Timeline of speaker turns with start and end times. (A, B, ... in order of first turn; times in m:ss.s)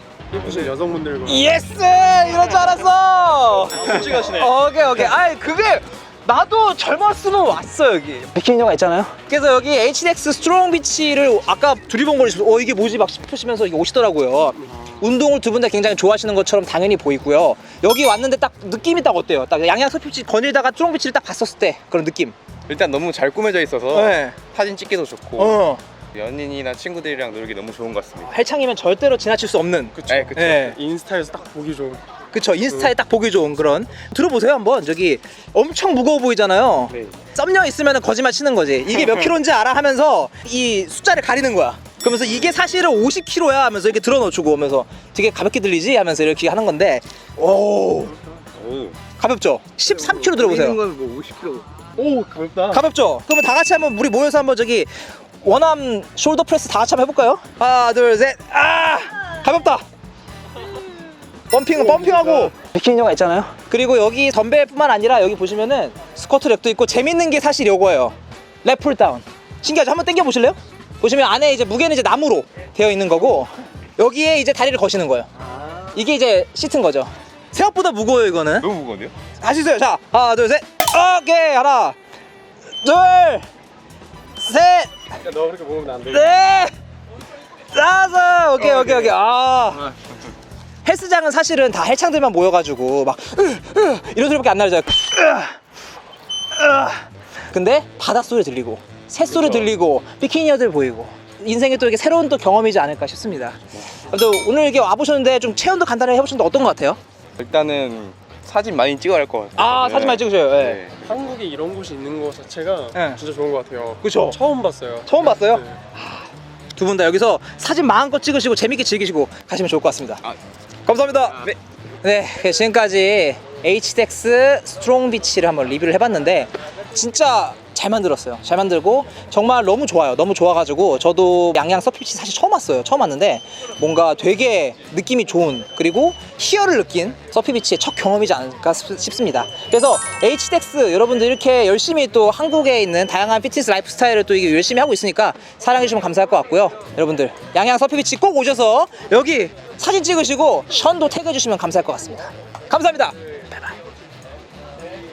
0:00.3-0:01.6 A
0:01.2-0:22.3 B
0:22.7-0:25.6 C
0:23.9-0:24.4 B
0:25.4-0:25.8 B
0:26.1-0:28.4 C
0:28.3-0:30.8 B
0:30.1-0:30.7 C
0:30.1-0:32.0 A
0:32.3-0:48.2 B
0:36.9-0:37.2 C
0:48.5-0:49.0 C
0:49.2-0:50.8 B
0:49.9-0:52.8 C
0:52.7-0:54.9 B
0:55.4-0:59.8 B
1:01.5-1:18.7 B
1:02.0-1:02.4 A
1:18.6-1:19.1 C
1:19.4-1:22.0 B
1:22.8-1:23.5 B
1:24.4-1:24.9 B
1:25.2-1:26.3 A
1:26.0-1:26.7 B
1:27.7-1:29.9 B
1:30.8-1:35.5 B
1:36.5-1:47.0 B
1:39.3-1:39.7 C
1:47.4-1:51.1 C
1:49.6-1:50.8 B
1:51.0-1:55.8 A
1:52.9-1:53.2 B
1:54.0-1:54.4 B
1:55.0-1:56.0 B
1:56.7-2:00.2 B
2:00.8-2:33.2 B